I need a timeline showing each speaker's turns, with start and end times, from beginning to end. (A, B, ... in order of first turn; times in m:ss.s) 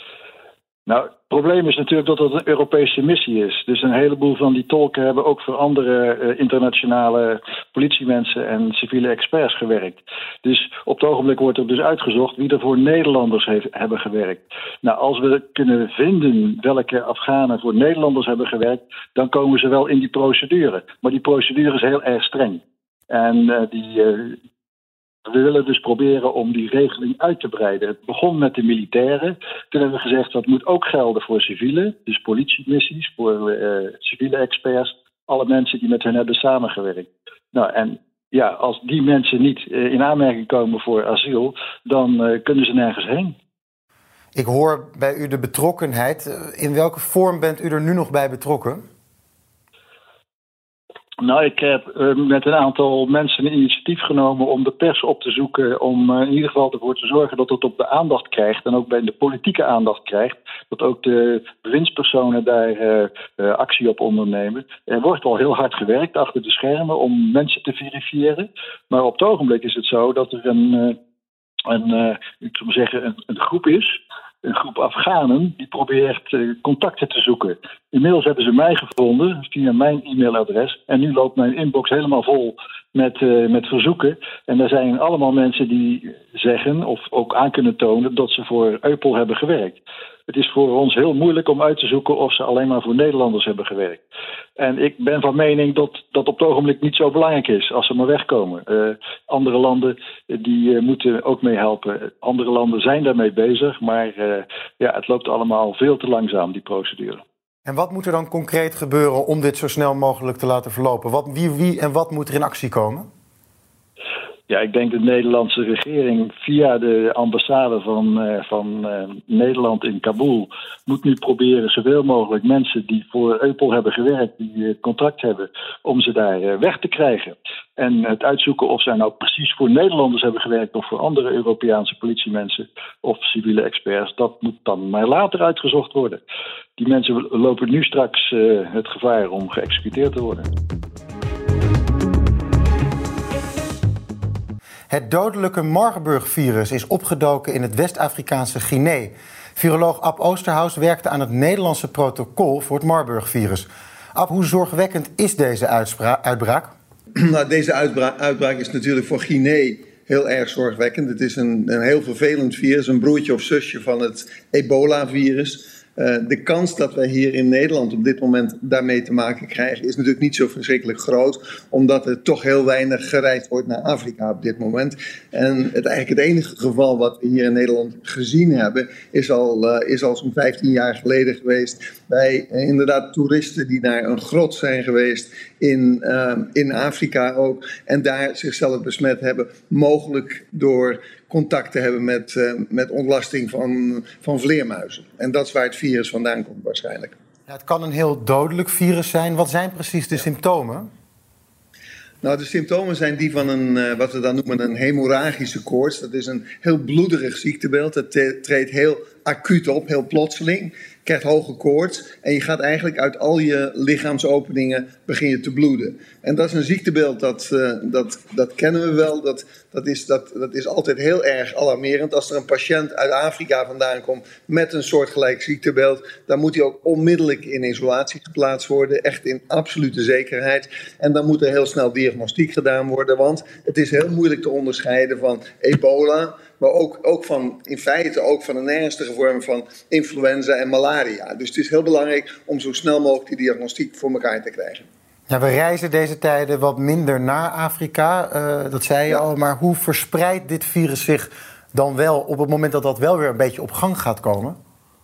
0:00.8-0:24.4 A
0:25.2-0:43.4 A
0:44.3-0:48.8 B
0:51.2-1:11.0 A
1:11.7-1:13.9 A
1:14.4-1:34.0 A
1:34.6-1:47.2 A
1:47.6-1:53.1 B
1:54.5-2:16.2 A
2:16.8-2:20.5 A
2:24.9-2:36.7 B
2:37.2-3:17.1 C
3:17.5-3:20.9 B
3:22.2-4:04.8 C
4:05.3-4:14.6 B